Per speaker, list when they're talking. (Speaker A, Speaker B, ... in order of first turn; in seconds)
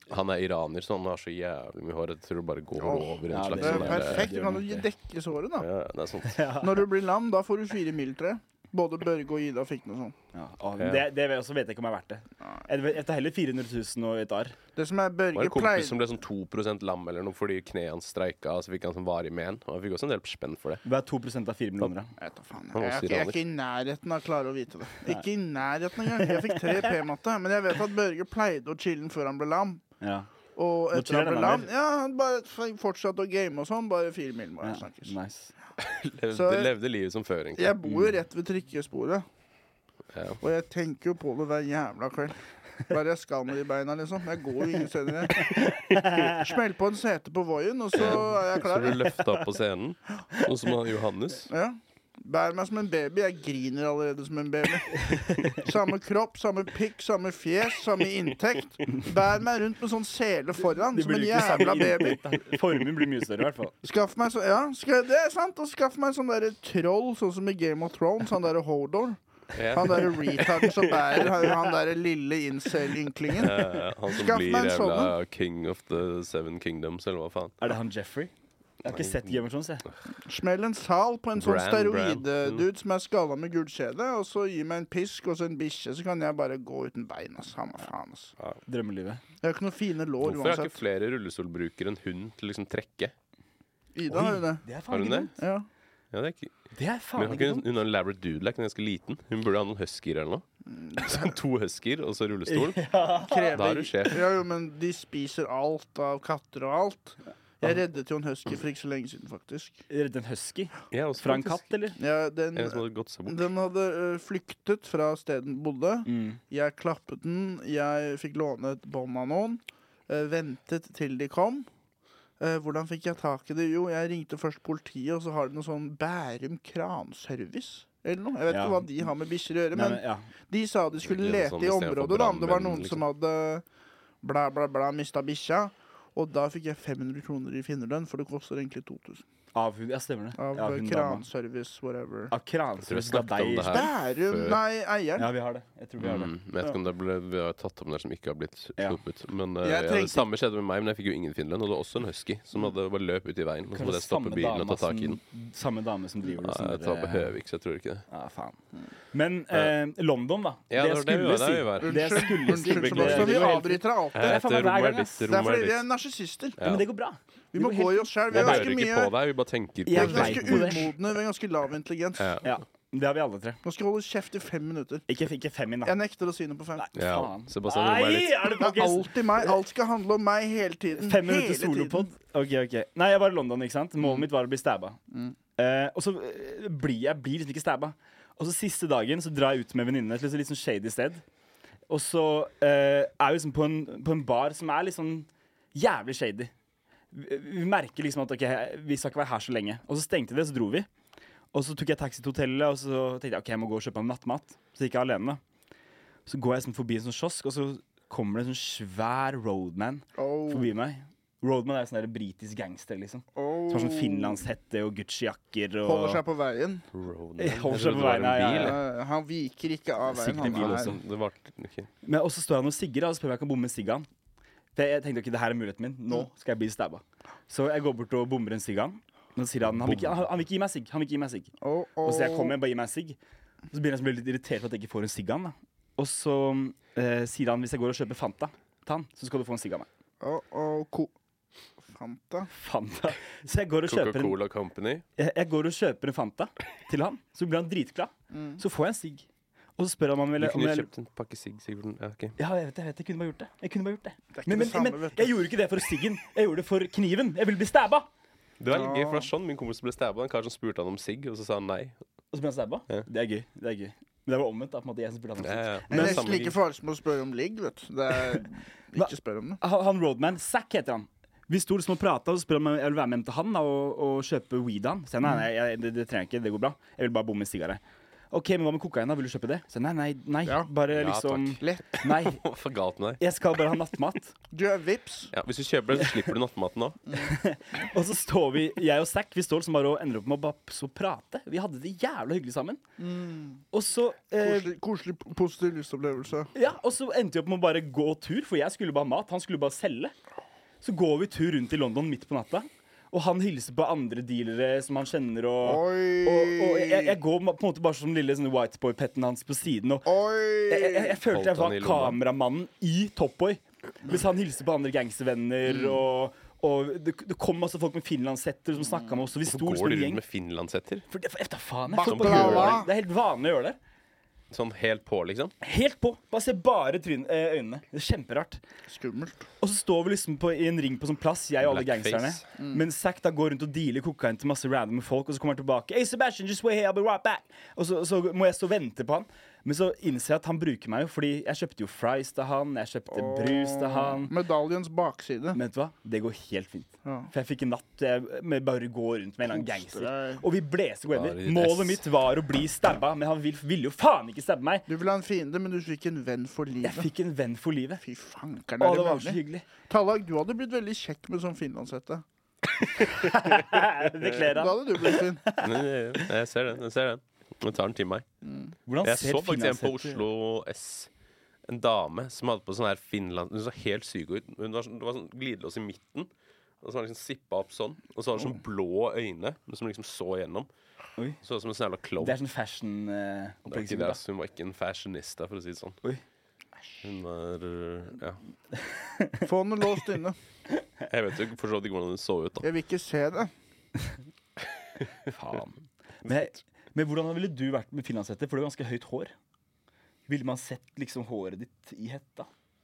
Speaker A: 0.1-4.3, 5.6-6.5, 10.8-11.0, 15.3-20.8, 22.7-23.4, 35.8-37.7, 40.1-40.4, 47.9-51.5, 69.5-71.3, 73.3-77.6, 78.8-79.4, 81.4-82.6, 90.2-93.1, 94.9-95.3, 96.1-96.5, 97.2-100.4, 101.0-102.8, 103.5-104.2, 110.9-111.6, 112.5-113.5, 131.0-133.0, 142.8-144.6, 146.0-155.2, 156.3-158.0, 160.7-163.6, 164.1-165.8, 166.6-166.8, 168.3-170.8, 172.2-172.4, 176.9-178.5, 216.9-218.8, 220.4-221.9, 229.8-230.1, 243.8-245.0, 250.4-252.4, 258.6-262.0, 265.4-266.5, 280.9-283.2, 285.3-287.0, 311.3-312.2, 319.4-321.0, 322.0-322.9, 324.5-325.5, 331.6-332.4, 351.1-352.0, 365.6-368.2, 369.0-371.1, 371.7-376.3, 376.8-380.7, 381.4-382.4, 383.7-386.0, 387.0-388.4, 391.1-392.6
Speaker B: 2.8-5.7, 6.6-10.2, 14.8-16.0, 22.2-29.8, 30.6-35.1, 36.3-36.7, 37.5-39.2, 40.4-45.5, 46.2-49.0, 51.5-62.2, 63.8-69.2, 69.7-75.1, 80.2-88.3, 89.4-90.8, 93.9-94.6, 95.4-95.7, 100.7-101.2, 103.2-109.8, 112.0-121.7, 122.4-133.6, 134.2-139.2, 140.4-142.3, 143.6-145.3, 149.6-150.2, 161.8-164.4, 165.2-166.6, 167.5-169.1, 169.9-172.4, 173.6-175.1, 175.8-176.9, 178.4-182.1, 210.2-210.7, 213.3-214.4, 215.8-216.8, 218.5-220.9, 231.6-232.6, 240.2-241.1, 241.8-242.5, 248.3-248.6, 254.3-255.3, 258.7-259.3, 265.9-269.6, 284.5-285.3, 293.0-293.6, 294.4-296.5, 305.6-307.1, 310.1-311.2, 315.7-316.0, 321.9-322.9, 328.9-329.4, 332.6-332.8, 343.1-345.6, 347.0-347.3, 349.5-350.4, 354.9-357.1, 358.0-362.2, 364.4-365.4, 368.4-368.7, 389.4-390.4, 392.6-393.5
Speaker C: 3.3-4.9, 6.3-6.7, 10.3-14.6, 20.8-22.1, 26.1-26.8, 30.0-30.3, 30.9-31.7, 34.6-35.5, 37.8-38.1, 45.4-46.4, 55.0-55.6, 60.9-63.8, 77.6-78.3, 78.8-79.8, 88.7-89.2, 94.1-95.3, 96.7-97.7, 102.5-103.6, 109.9-112.0, 116.1-116.4, 128.5-128.8, 129.7-130.3, 139.5-141.2, 142.3-143.8, 145.2-146.7, 153.7-157.3, 158.1-158.6, 159.1-165.3, 166.6-168.8, 169.8-170.9, 172.4-173.6, 175.1-175.9, 176.8-179.6, 181.0-185.0, 185.6-191.2, 191.9-196.5, 197.1-200.9, 201.5-205.4, 206.2-216.2, 217.4-218.8, 220.1-221.0, 222.0-224.1, 224.7-231.5, 232.0-233.2, 233.7-239.9, 242.5-244.4, 245.2-249.2, 249.8-250.9, 252.4-258.1, 262.3-266.5, 268.9-277.8, 278.3-282.4, 283.2-284.3, 287.2-292.8, 293.7-294.7, 296.5-300.1, 300.8-310.1, 310.6-320.2, 321.1-323.8, 325.6-328.6, 329.6-344.3, 345.5-354.9, 356.8-358.0, 358.8-359.6, 363.0-366.3, 368.9-370.2, 382.2-384.2, 388.7-389.4, 395.3-399.3, 400.3-402.5